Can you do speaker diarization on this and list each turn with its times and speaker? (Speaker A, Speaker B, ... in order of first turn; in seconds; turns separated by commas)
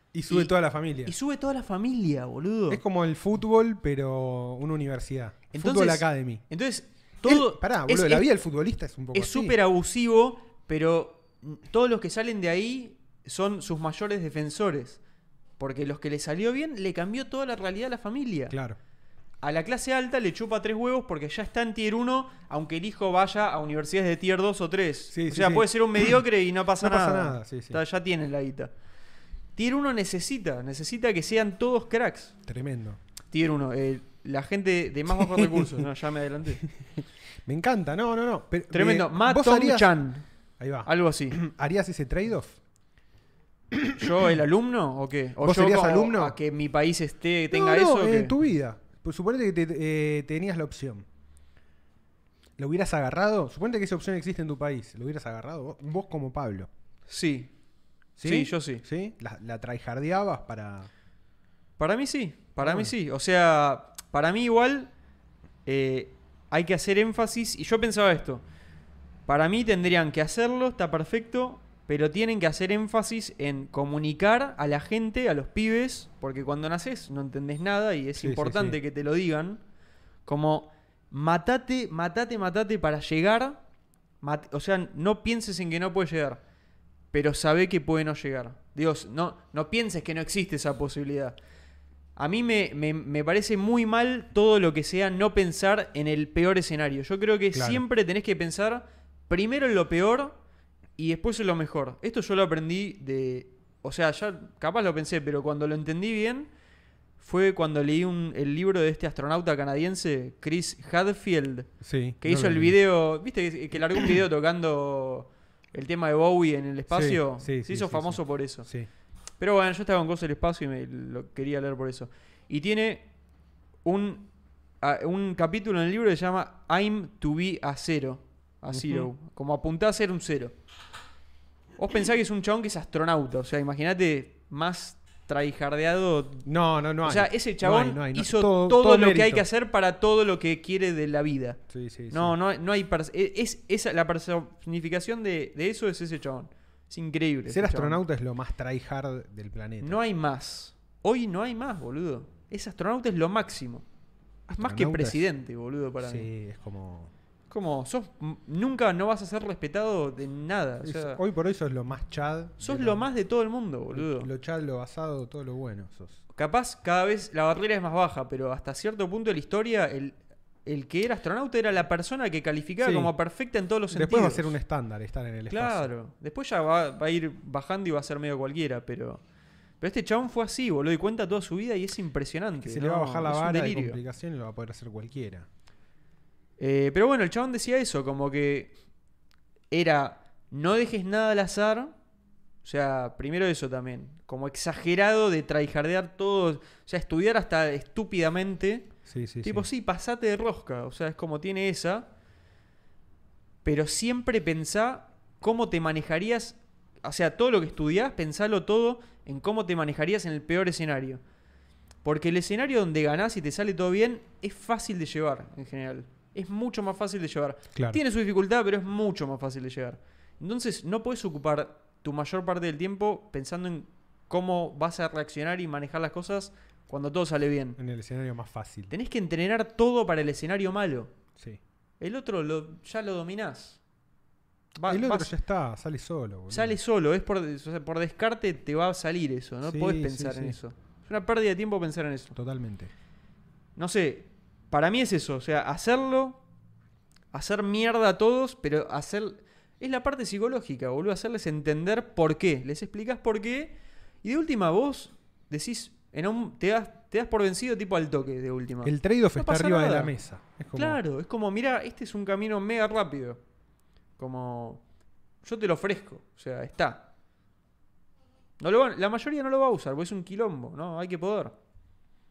Speaker A: 0.1-1.1, Speaker B: 1.0-2.8, Speaker A: 2.7-6.4, Speaker B: 5.5-8.3, Speaker A: 7.2-9.6, Speaker B: 9.1-15.0, Speaker B: 15.6-18.5, Speaker A: 18.5-18.8, Speaker B: 19.4-28.7, Speaker A: 25.1-26.2, Speaker A: 26.8-27.8, Speaker B: 29.6-32.3, Speaker A: 32.4-33.0, Speaker B: 33.3-36.6, Speaker A: 35.1-35.9, Speaker A: 36.6-39.9, Speaker B: 38.7-40.2, Speaker A: 40.6-42.6, Speaker B: 40.8-41.4, Speaker A: 43.7-44.1, Speaker B: 43.9-48.3, Speaker A: 45.4-46.4, Speaker A: 47.5-51.0, Speaker A: 52.6-56.7, Speaker B: 57.1-57.5, Speaker A: 58.2-60.9, Speaker B: 58.2-58.8, Speaker B: 61.8-64.9, Speaker A: 62.6-62.9, Speaker B: 65.7-68.4, Speaker B: 69.3-79.6, Speaker A: 78.2-78.8, Speaker B: 80.2-83.6, Speaker B: 84.2-86.4, Speaker B: 87.1-91.4, Speaker B: 92.2-100.4, Speaker A: 97.5-97.8, Speaker B: 101.0-106.5, Speaker B: 107.2-111.7, Speaker A: 111.8-112.8, Speaker B: 112.2-118.7, Speaker A: 116.9-118.9, Speaker B: 119.4-123.1, Speaker B: 123.8-124.3, Speaker B: 124.8-130.5, Speaker A: 128.7-129.1, Speaker B: 131.8-136.4, Speaker A: 136.4-139.4, Speaker B: 137.0-141.6, Speaker A: 141.7-142.3, Speaker B: 142.1-148.0, Speaker A: 147.5-150.0, Speaker B: 149.8-153.8, Speaker B: 154.5-156.3, Speaker A: 154.5-155.3, Speaker A: 156.0-157.1, Speaker B: 157.5-161.2, Speaker A: 160.8-163.1, Speaker B: 162.6-164.3, Speaker A: 163.9-166.2, Speaker B: 166.3-174.6, Speaker A: 172.8-173.1, Speaker A: 173.9-175.9, Speaker B: 175.5-179.2, Speaker B: 179.8-184.0, Speaker A: 182.6-185.5, Speaker B: 186.6-188.7, Speaker B: 189.7-191.9, Speaker B: 192.6-198.9, Speaker A: 199.1-199.7, Speaker B: 199.4-202.1, Speaker B: 203.6-211.2, Speaker B: 212.0-227.8, Speaker A: 217.7-218.0, Speaker A: 227.8-228.9, Speaker B: 228.9-231.1, Speaker B: 232.0-233.8, Speaker B: 234.8-235.3, Speaker A: 234.8-236.8, Speaker B: 236.5-242.3, Speaker A: 239.6-240.6, Speaker A: 242.3-242.9, Speaker B: 243.8-246.4, Speaker B: 247.3-260.1, Speaker A: 258.8-261.0, Speaker B: 260.7-263.4, Speaker B: 264.2-264.8, Speaker B: 265.4-267.1, Speaker B: 268.6-271.6